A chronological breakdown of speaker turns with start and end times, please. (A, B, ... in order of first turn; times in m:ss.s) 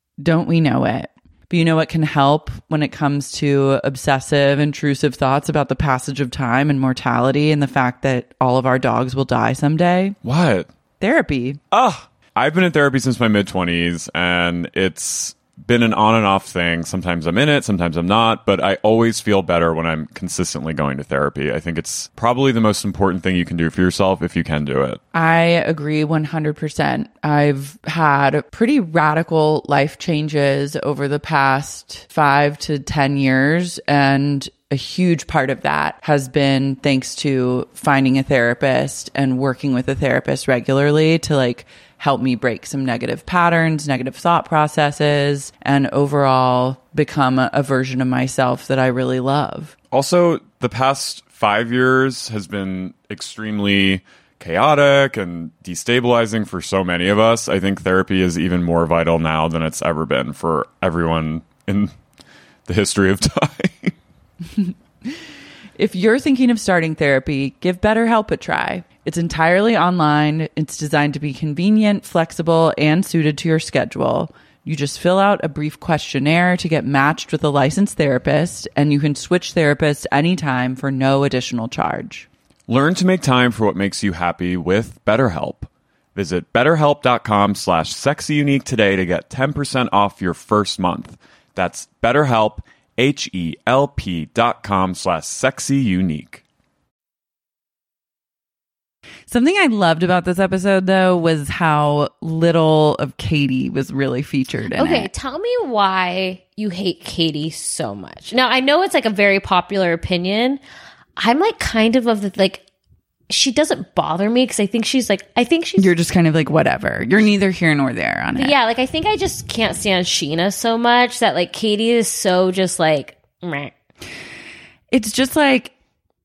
0:00.2-0:10.2 A
0:10.2-0:10.7 B
0:11.0-0:11.6 A
0:11.7-0:25.0 B
0:25.1-0:49.7 A
0:49.9-1:01.9 B
1:02.7-1:03.9 B
1:05.8-1:22.3 A
1:22.7-1:36.4 B
1:39.3-1:45.1 A
1:44.7-1:50.6 C
1:51.2-1:52.6 C
1:53.3-1:55.9 C
1:55.8-1:58.6 A
1:58.4-2:03.7 C
2:04.9-2:05.7 A